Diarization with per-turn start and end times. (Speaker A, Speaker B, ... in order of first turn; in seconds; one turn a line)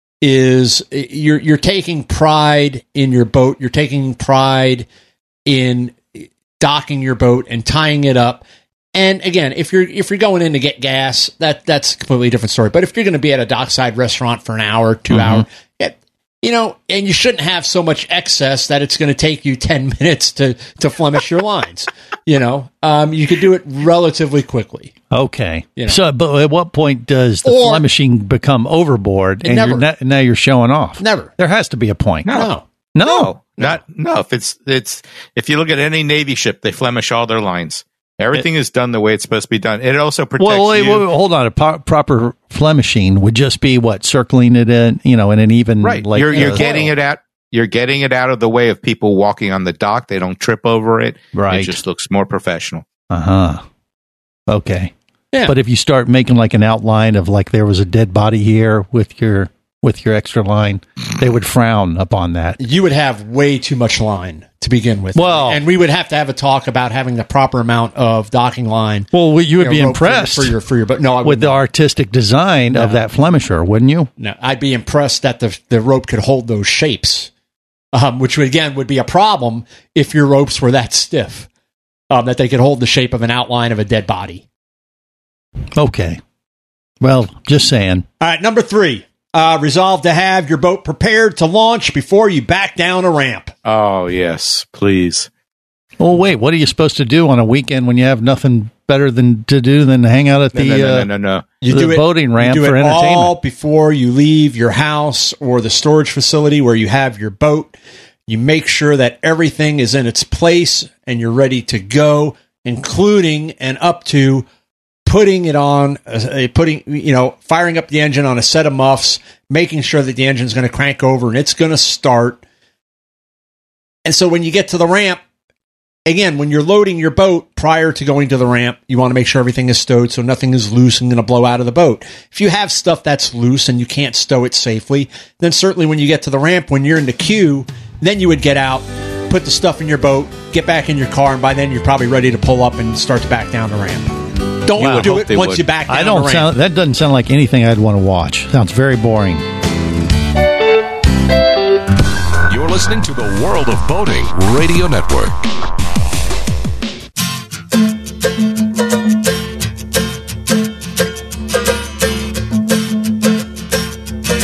Speaker A: 0.2-4.9
Speaker A: 5.5-8.4
Speaker A: 8.9-24.9
Speaker B: 15.1-15.5
Speaker B: 25.1-33.3
Speaker A: 27.4-27.9
Speaker A: 29.4-29.9
Speaker A: 31.0-31.3
Speaker C: 32.2-41.1
Speaker A: 32.3-32.7
Speaker B: 40.4-46.7
Speaker C: 45.8-52.8
Speaker A: 46.3-46.9
Speaker B: 51.3-51.8
Speaker B: 53.1-53.6
Speaker B: 54.5-54.9
Speaker B: 55.5-62.6
Speaker A: 62.6-71.6
Speaker B: 65.2-65.6
Speaker B: 69.1-70.5
Speaker B: 71.2-74.1
Speaker A: 72.7-73.0
Speaker A: 74.2-77.3
Speaker A: 77.9-81.5
Speaker A: 82.1-84.4
Speaker B: 85.7-86.2
Speaker B: 87.0-88.1
Speaker A: 88.2-93.5
Speaker C: 93.7-95.3
Speaker B: 96.0-101.1
Speaker C: 100.5-101.5
Speaker A: 101.6-107.8
Speaker B: 101.7-103.3
Speaker A: 108.3-114.5
Speaker A: 115.1-122.4
Speaker A: 124.0-125.2
Speaker A: 126.1-144.1
Speaker A: 144.7-146.5
Speaker C: 144.8-145.7
Speaker B: 144.8-145.2
Speaker B: 145.9-149.4
Speaker D: 152.5-155.4